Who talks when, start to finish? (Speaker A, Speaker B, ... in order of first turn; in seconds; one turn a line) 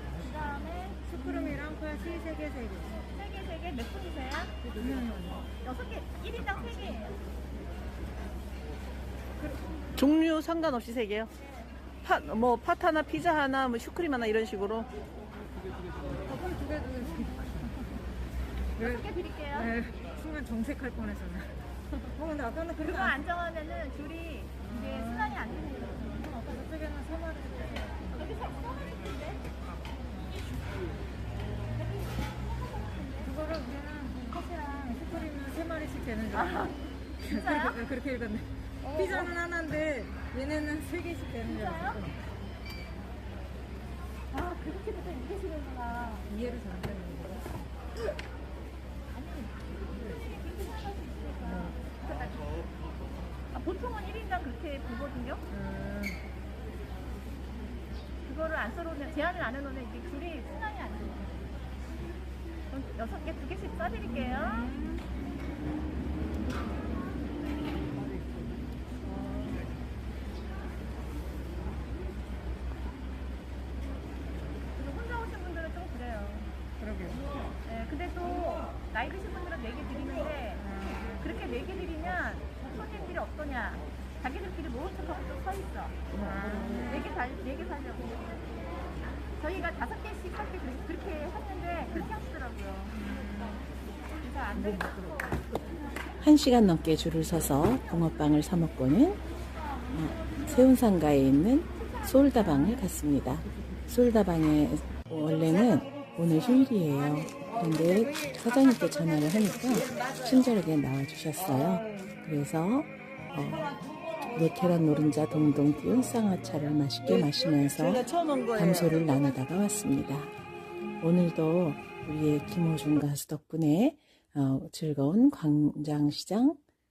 Speaker A: 0.2-1.2
Speaker B: 1.1-3.0
Speaker A: 3.1-4.6
Speaker B: 4.8-5.3
Speaker A: 5.6-7.2
Speaker C: 9.9-11.3
Speaker C: 12.0-14.9
Speaker B: 16.1-17.6
Speaker A: 18.8-19.7
Speaker B: 19.7-21.5
Speaker B: 22.1-23.1
Speaker A: 22.8-26.3
Speaker B: 24.8-25.3
Speaker B: 26.4-28.0
Speaker A: 28.1-29.3
Speaker A: 32.7-33.3
Speaker B: 33.3-36.7
Speaker A: 37.3-37.8
Speaker B: 37.4-42.1
Speaker A: 38.8-39.3
Speaker A: 41.5-42.0
Speaker A: 44.3-46.2
Speaker B: 46.3-47.4
Speaker A: 49.1-49.6
Speaker A: 50.1-52.5
Speaker A: 53.5-55.4
Speaker B: 55.7-56.0
Speaker A: 58.2-61.3
Speaker A: 62.7-64.8
Speaker A: 74.8-76.5
Speaker B: 76.9-77.2
Speaker A: 77.7-86.1
Speaker B: 86.2-86.9
Speaker A: 86.8-88.3
Speaker A: 89.4-93.0
Speaker B: 93.1-93.5
Speaker A: 94.2-95.1
Speaker D: 96.2-99.2
Speaker D: 99.9-113.8
Speaker D: 114.3-120.3
Speaker D: 121.0-126.6